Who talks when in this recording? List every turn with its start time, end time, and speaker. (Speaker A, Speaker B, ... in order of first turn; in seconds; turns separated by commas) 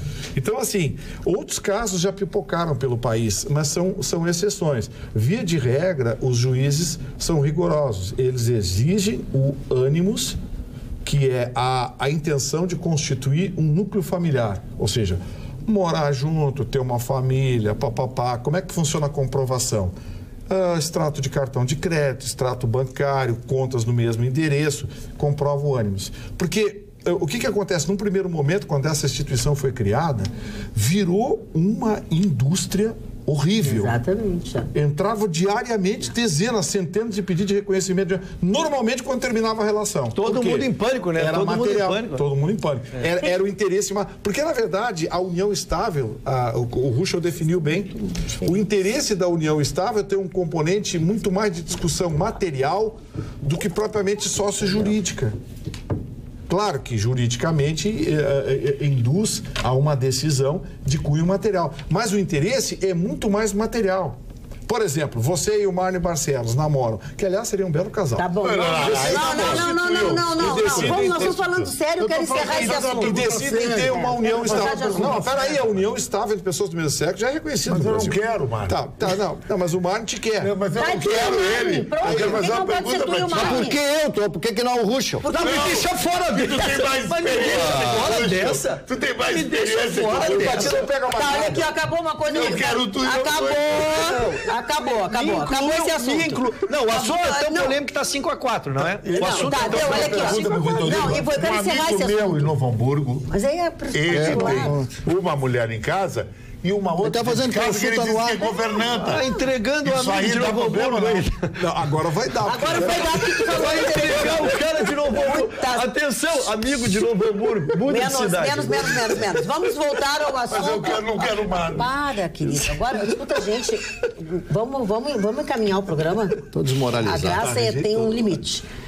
Speaker A: 0.3-10.4, Speaker A: 11.0-19.9, Speaker A: 20.5-33.9, Speaker B: 33.6-34.7, Speaker A: 34.7-55.3, Speaker C: 40.1-42.2, Speaker A: 56.5-71.3, Speaker B: 68.2-75.5, Speaker D: 68.4-75.7, Speaker A: 72.1-80.5, Speaker D: 77.7-78.8, Speaker D: 80.4-83.6, Speaker B: 80.8-83.8, Speaker A: 82.0-82.4, Speaker E: 83.3-85.3, Speaker B: 85.2-85.8, Speaker C: 85.3-91.5, Speaker D: 85.4-90.8, Speaker A: 90.0-91.7, Speaker B: 91.1-97.7, Speaker D: 92.3-94.4, Speaker C: 94.8-100.8, Speaker D: 99.0-103.3, Speaker B: 99.2-102.5, Speaker A: 99.2-101.0, Speaker B: 103.3-104.8, Speaker D: 103.9-109.2, Speaker E: 104.1-105.0, Speaker E: 107.0-108.5, Speaker C: 109.0-111.5, Speaker D: 109.8-111.3, Speaker A: 111.6-114.1, Speaker B: 112.4-115.9, Speaker C: 113.5-119.2, Speaker B: 117.9-126.4, Speaker D: 120.5-121.9, Speaker E: 126.5-127.7, Speaker B: 127.0-128.6, Speaker A: 127.2-128.3